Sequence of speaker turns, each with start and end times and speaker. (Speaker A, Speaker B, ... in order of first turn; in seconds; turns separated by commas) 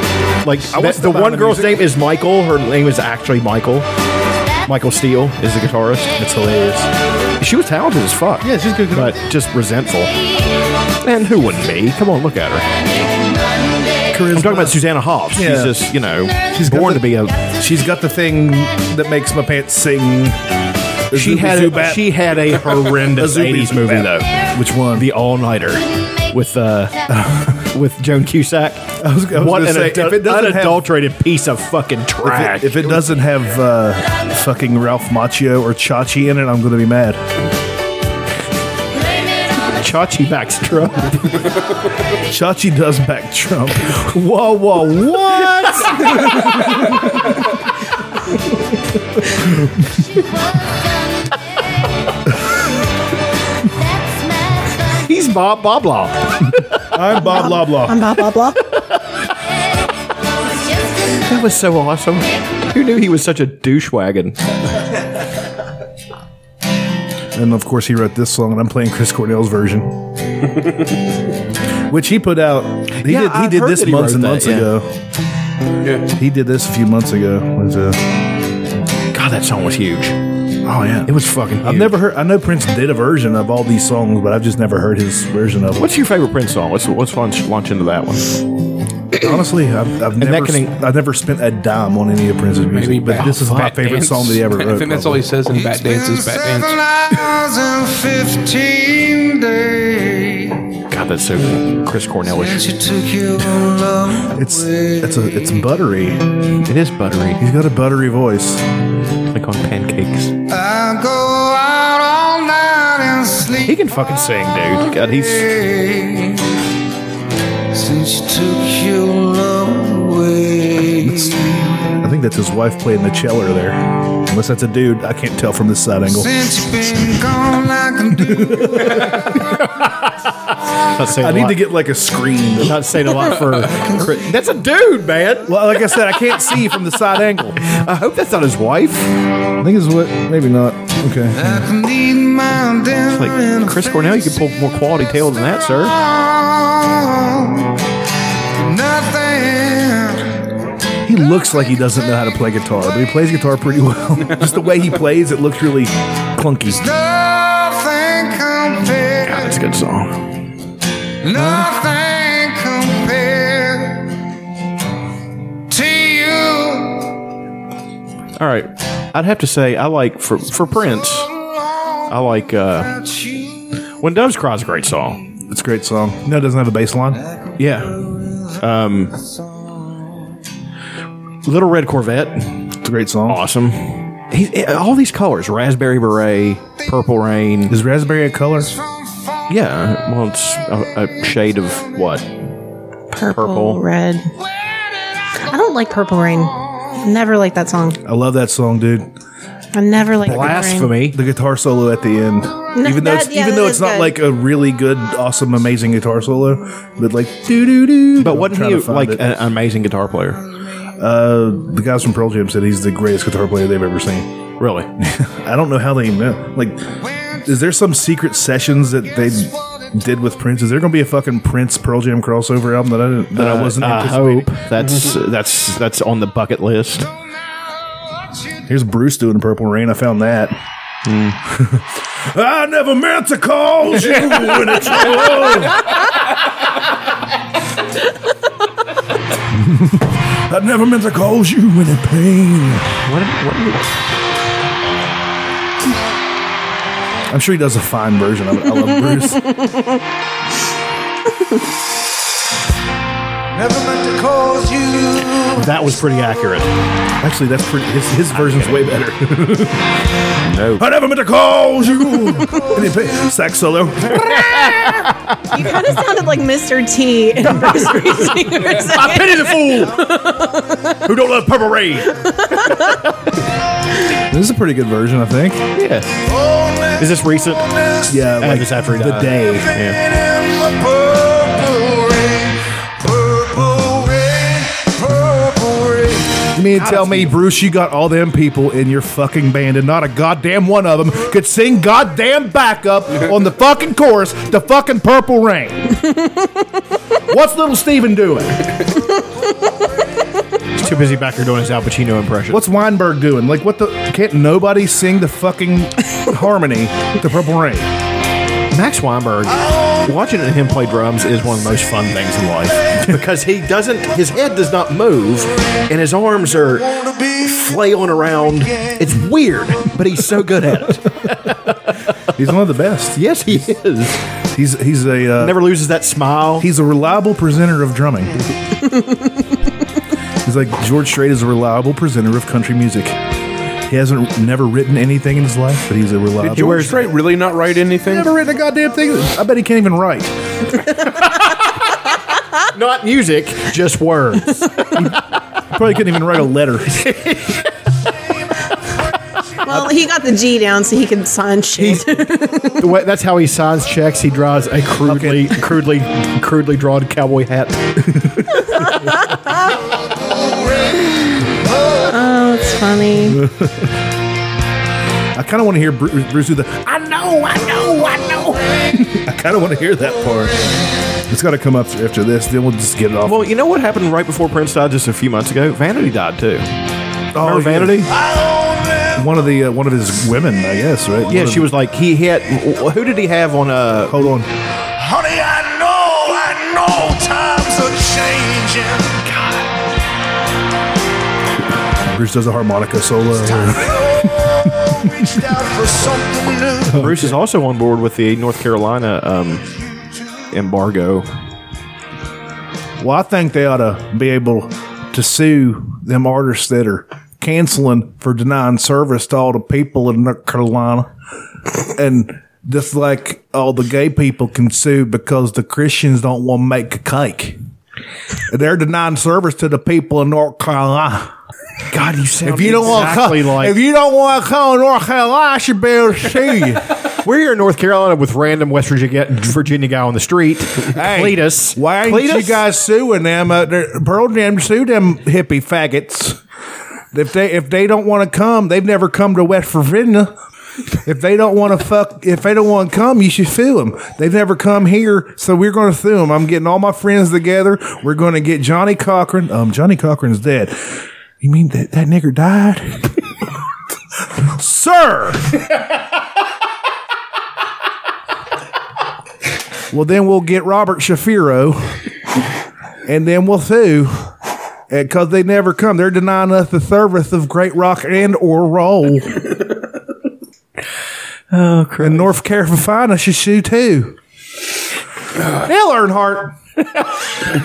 Speaker A: 0.4-3.9, Speaker B: 0.7-1.9, Speaker A: 4.7-6.1, Speaker B: 6.2-6.9, Speaker A: 7.4-10.1, Speaker B: 8.4-9.2, Speaker A: 11.0-12.9, Speaker B: 14.1-15.9, Speaker A: 14.3-17.4, Speaker B: 16.5-20.4, Speaker B: 21.1-25.1, Speaker A: 21.1-27.1, Speaker B: 27.1-27.7, Speaker A: 27.7-33.1, Speaker B: 29.0-30.9, Speaker B: 32.2-37.2, Speaker A: 39.8-41.5, Speaker B: 42.3-44.2, Speaker A: 44.0-46.1, Speaker B: 45.6-47.0, Speaker B: 49.3-50.0, Speaker A: 54.9-56.7, Speaker B: 56.9-58.1, Speaker C: 57.2-58.6, Speaker A: 61.2-64.4, Speaker B: 67.3-70.1, Speaker B: 71.9-74.9, Speaker A: 73.0-74.7, Speaker D: 75.8-76.1, Speaker B: 76.2-78.0, Speaker A: 79.1-80.2, Speaker B: 80.7-85.9, Speaker A: 81.1-82.0, Speaker A: 85.8-88.4, Speaker B: 89.2-95.3, Speaker A: 90.2-90.8, Speaker D: 92.7-96.8, Speaker A: 93.3-93.8, Speaker E: 95.5-100.7, Speaker A: 100.9-102.7, Speaker E: 102.3-105.6, Speaker B: 104.3-106.4, Speaker A: 106.6-107.4, Speaker B: 107.4-108.6, Speaker A: 109.3-110.4, Speaker E: 110.5-113.8, Speaker A: 113.7-115.5, Speaker E: 115.0-116.5, Speaker E: 117.7-121.9, Speaker B: 121.0-121.4, Speaker B: 122.0-126.3, Speaker E: 126.2-129.0, Speaker B: 128.2-129.2, Speaker A: 129.6-130.1, Speaker A: 130.9-131.6, Speaker B: 131.1-133.1, Speaker A: 132.6-135.5, Speaker E: 133.7-134.1, Speaker B: 135.4-137.7, Speaker A: 137.7-139.1, Speaker B: 139.6-141.6, Speaker E: 141.3-144.4, Speaker A: 143.1-145.9, Speaker E: 146.0-147.7, Speaker E: 148.6-150.4, Speaker B: 151.1-156.8, Speaker E: 156.8-159.6, Speaker A: 159.2-160.4, Speaker E: 161.2-164.1, Speaker A: 161.3-161.7, Speaker E: 165.7-167.1, Speaker A: 168.4-171.3, Speaker A: 172.1-172.9, Speaker E: 172.8-173.7, Speaker A: 174.0-175.2, Speaker B: 175.5-177.2, Speaker E: 177.3-178.6, Speaker A: 177.6-178.0, Speaker A: 178.6-179.1, Speaker A: 181.4-182.7, Speaker B: 182.8-183.4, Speaker A: 183.3-187.8, Speaker B: 187.7-188.7, Speaker A: 189.5-192.3, Speaker C: 193.1-194.3, Speaker A: 193.3-193.8, Speaker C: 195.4-198.0, Speaker B: 198.1-199.1, Speaker C: 199.8-200.9, Speaker A: 200.2-201.2, Speaker B: 201.1-209.2, Speaker C: 202.8-204.2, Speaker A: 208.2-210.4, Speaker B: 211.0-214.3, Speaker A: 214.6-214.9, Speaker B: 215.0-224.5, Speaker A: 223.4-227.1, Speaker B: 228.7-230.6, Speaker A: 231.1-231.4, Speaker B: 231.5-236.1, Speaker B: 239.5-242.9, Speaker A: 243.1-243.9, Speaker B: 247.3-249.6, Speaker C: 249.6-249.8, Speaker E: 253.5-255.6, Speaker A: 255.6-256.7, Speaker B: 257.2-259.9, Speaker A: 258.3-258.9, Speaker A: 260.5-260.8, Speaker B: 260.8-264.4, Speaker A: 264.2-265.4, Speaker C: 265.5-271.0, Speaker A: 268.7-270.1, Speaker A: 271.0-273.0, Speaker C: 272.1-273.0, Speaker B: 274.3-275.7, Speaker A: 275.8-276.2, Speaker E: 276.3-277.2, Speaker A: 277.0-277.7, Speaker E: 277.7-278.1, Speaker B: 278.1-279.8, Speaker A: 278.4-280.0, Speaker E: 280.0-286.5, Speaker B: 286.5-296.0, Speaker A: 286.8-287.4, Speaker B: 297.3-298.7, Speaker A: 300.8-302.6, Speaker B: 302.5-307.9, Speaker A: 308.7-322.2, Speaker B: 322.3-323.2, Speaker A: 323.2-324.2, Speaker B: 324.5-325.6, Speaker A: 325.4-326.7, Speaker B: 326.6-328.4, Speaker B: 330.4-333.2, Speaker B: 333.9-336.9, Speaker A: 336.4-337.1, Speaker D: 336.5-338.3, Speaker B: 338.1-340.3, Speaker A: 342.7-344.7, Speaker B: 345.7-347.1, Speaker A: 346.9-347.7, Speaker C: 349.6-352.8, Speaker A: 351.8-352.1, Speaker A: 352.8-358.0, Speaker B: 355.1-355.6, Speaker B: 358.1-358.7, Speaker C: 362.1-363.4, Speaker B: 363.3-363.9, Speaker B: 365.4-370.6, Speaker B: 371.3-373.4, Speaker A: 373.2-376.7, Speaker B: 377.3-378.1, Speaker A: 377.4-378.1, Speaker E: 378.2-379.2, Speaker B: 379.1-381.7, Speaker A: 381.3-384.3, Speaker B: 384.1-384.5, Speaker E: 385.0-389.3, Speaker B: 392.0-394.0, Speaker E: 393.6-397.0, Speaker B: 396.9-397.4, Speaker A: 396.9-399.6, Speaker A: 400.5-401.3, Speaker B: 403.0-411.1, Speaker B: 411.9-417.6, Speaker B: 418.5-421.3, Speaker A: 421.9-423.8, Speaker B: 422.4-426.9, Speaker A: 426.9-432.6, Speaker B: 430.9-436.4, Speaker B: 437.1-440.3, Speaker B: 441.0-453.2, Speaker B: 454.4-455.5, Speaker B: 459.9-462.0, Speaker B: 463.1-464.3, Speaker B: 464.9-469.5, Speaker A: 471.5-472.3, Speaker B: 472.0-474.2, Speaker B: 475.6-476.6, Speaker A: 476.9-477.2